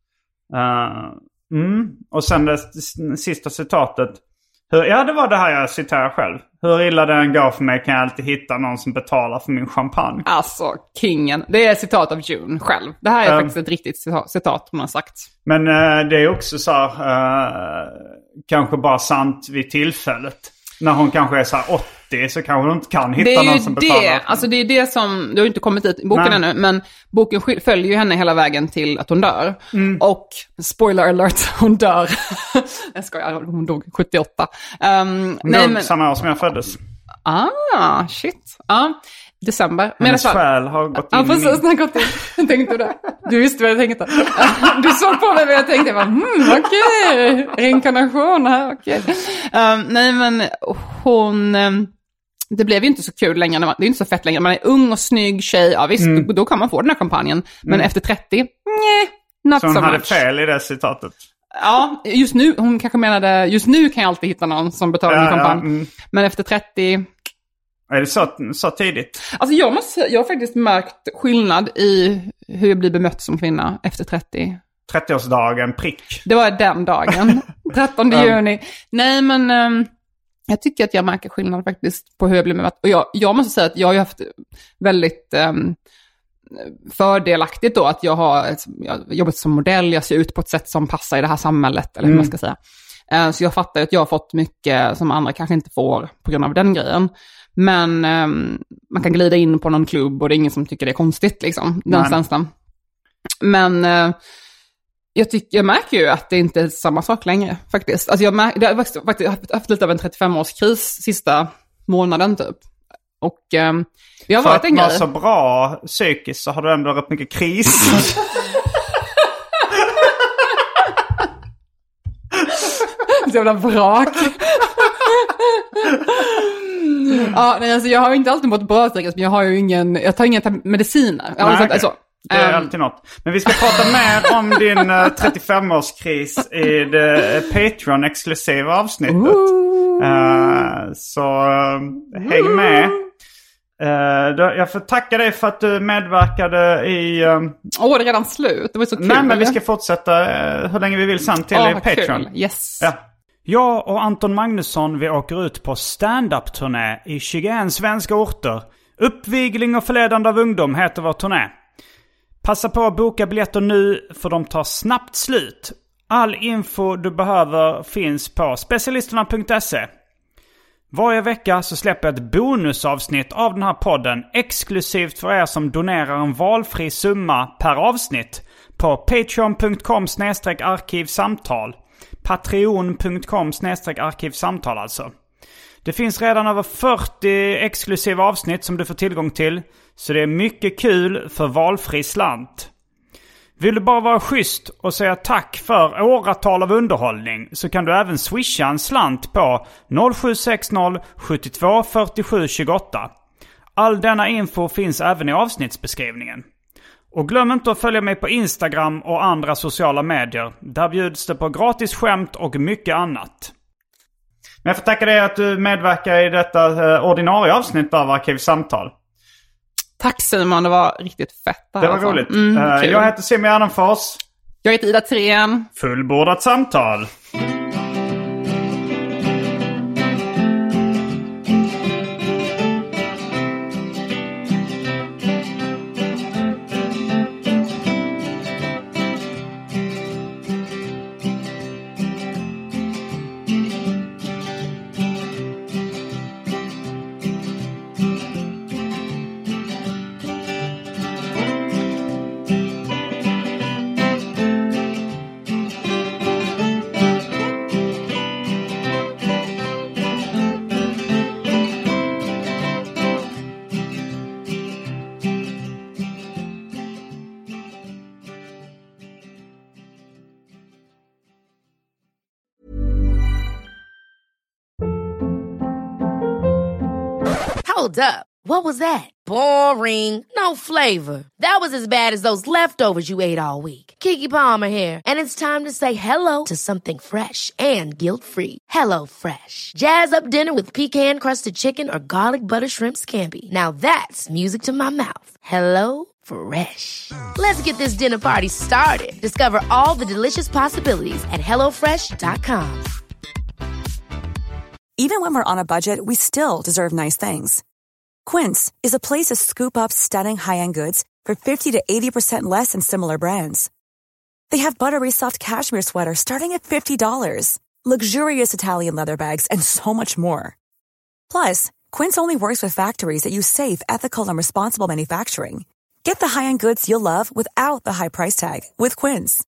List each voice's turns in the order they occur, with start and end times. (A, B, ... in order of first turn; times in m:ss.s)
0:00.5-0:10.2 A
0:10.2-0:15.3 B
0:13.2-0:13.5 A
0:15.4-0:24.4 A
0:23.2-0:35.9 B
0:26.1-0:26.4 A
0:29.7-0:30.0 A
0:35.4-0:36.8 A
0:37.2-0:40.4 B
0:40.0-0:41.6 A
0:41.0-0:51.9 B
0:44.4-0:44.7 A
0:52.5-1:00.2 B
0:56.0-0:56.3 A
0:59.6-1:01.2 A
1:01.6-1:07.1 B
1:05.1-1:05.9 A
1:07.9-1:09.2 A
1:09.3-1:14.6 B
1:14.9-1:16.2 A
1:16.2-1:19.9 B
1:18.1-1:18.4 A
1:20.5-1:25.8 B
1:26.5-1:32.6 B
1:32.0-1:32.3 A
1:33.1-1:42.5 B
1:41.9-1:42.2 A
1:43.4-1:44.2 B
1:45.1-1:52.6 B
1:53.2-1:55.0 B
1:54.4-1:58.2 A
2:03.0-2:12.7 B
2:11.4-2:23.0 A
2:13.5-2:13.8 B
2:19.1-2:20.5 B
2:22.2-2:23.0 B
2:23.8-2:27.6 A
2:27.7-2:29.6 B
2:29.0-2:32.3 A
2:31.5-2:32.9 B
2:32.8-2:41.5 A
2:42.4-2:49.9 A
2:50.9-3:05.1 A
3:05.8-3:12.7 A
3:13.6-3:23.1 A
3:23.8-3:26.5 A
3:27.1-3:33.5 A
3:34.6-3:38.9 A
3:40.0-3:43.1 B
3:41.8-3:44.2 A
3:44.6-3:45.7 B
3:45.8-3:47.1 A
4:37.6-5:02.9 C
5:05.0-5:07.6 D
5:08.2-5:13.7 D
5:14.5-5:20.6 D
5:21.3-5:29.4 D